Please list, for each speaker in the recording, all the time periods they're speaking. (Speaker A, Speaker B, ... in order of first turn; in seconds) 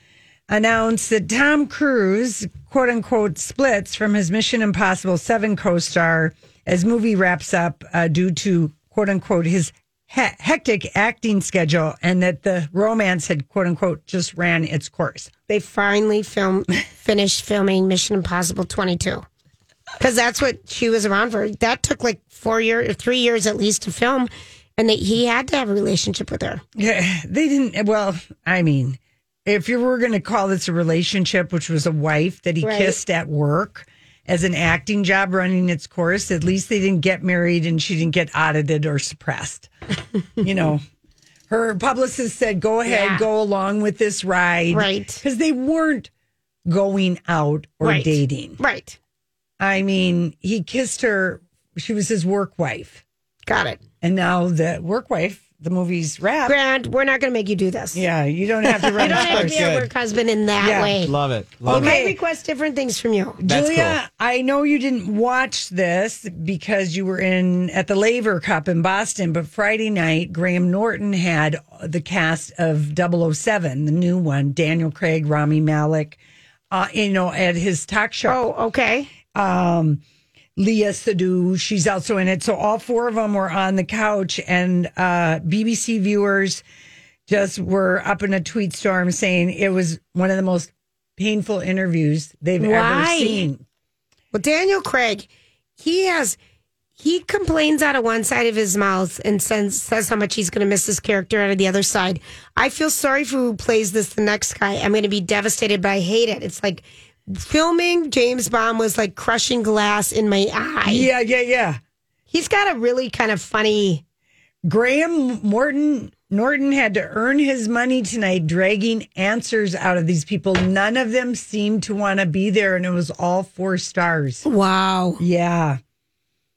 Speaker A: 0.5-15.3, 26.8-39.7, 40.4-40.8, 41.5-46.1, 46.7-48.6, 49.6-53.0, 54.0-56.6, 57.9-59.6, 60.6-61.0, 61.6-62.2, 63.4-76.2, 76.7-78.4, 79.3-80.0, 80.6-86.6, 87.3-93.6, 110.8-111.8, 114.7-124.5, 125.2-125.8
Speaker B: 15.5-19.2, 20.0-26.6, 32.6-33.0, 42.9-43.3, 44.7-45.2, 47.8-49.0, 53.5-53.8, 56.5-58.0, 58.9-61.1, 61.7-63.4, 78.3-79.1, 92.6-93.5, 94.3-95.3, 95.8-96.4, 97.0-111.1, 112.3-114.0, 124.5-125.2
Speaker C: 59.0-59.9, 61.0-62.0, 63.5-64.0